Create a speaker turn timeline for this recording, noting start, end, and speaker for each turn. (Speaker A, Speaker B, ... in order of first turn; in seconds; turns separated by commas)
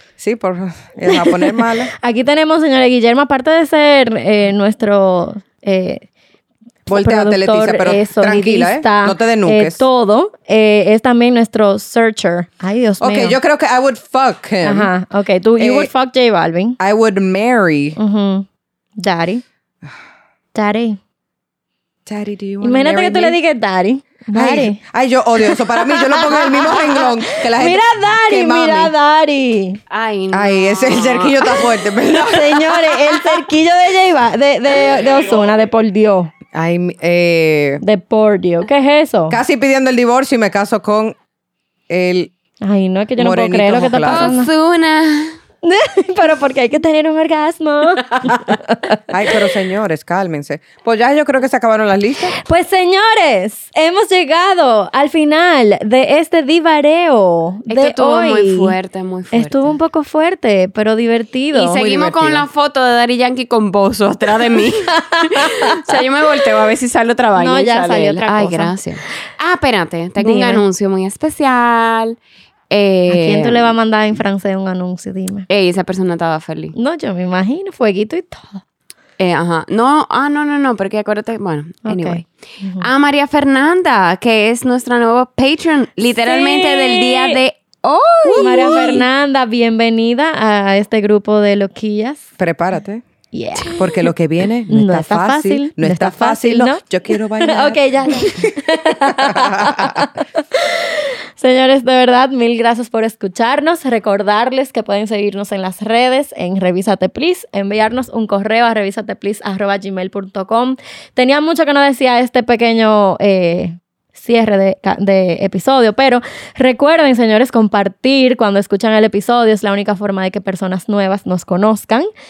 Speaker A: 0.2-1.9, Speaker B: 1.1-1.3, Speaker B: 1.9-6.0, Speaker A: 6.9-9.8, Speaker B: 6.9-13.4, Speaker A: 13.0-14.9, Speaker B: 14.6-16.8, Speaker A: 15.6-15.9, Speaker A: 16.8-18.0, Speaker B: 18.0-18.4, Speaker B: 19.0-19.4, Speaker B: 20.5-21.0, Speaker A: 22.1-23.4, Speaker B: 22.6-24.8, Speaker A: 24.3-28.9, Speaker B: 25.4-29.8, Speaker C: 29.9-31.7, Speaker A: 30.3-32.7, Speaker B: 32.2-36.3, Speaker A: 36.5-37.8, Speaker B: 37.8-39.4, Speaker A: 39.3-41.1, Speaker A: 41.9-42.3, Speaker B: 42.6-44.5, Speaker A: 43.2-44.3, Speaker C: 44.0-45.4, Speaker B: 45.6-49.0, Speaker A: 49.1-52.3, Speaker B: 52.3-58.7, Speaker C: 57.7-59.7, Speaker B: 59.3-61.8, Speaker C: 61.5-72.2, Speaker A: 61.7-62.5, Speaker B: 65.0-66.0, Speaker B: 67.3-68.7, Speaker B: 70.2-70.6, Speaker C: 72.7-73.7, Speaker B: 73.1-75.5, Speaker C: 75.5-76.7, Speaker B: 76.7-78.6, Speaker C: 79.2-89.0, Speaker B: 81.8-82.8, Speaker B: 86.2-87.4, Speaker B: 88.2-92.2, Speaker A: 92.4-93.0, Speaker B: 93.3-94.1, Speaker A: 93.8-98.5, Speaker B: 94.7-96.8, Speaker B: 97.4-122.1, Speaker A: 99.0-100.0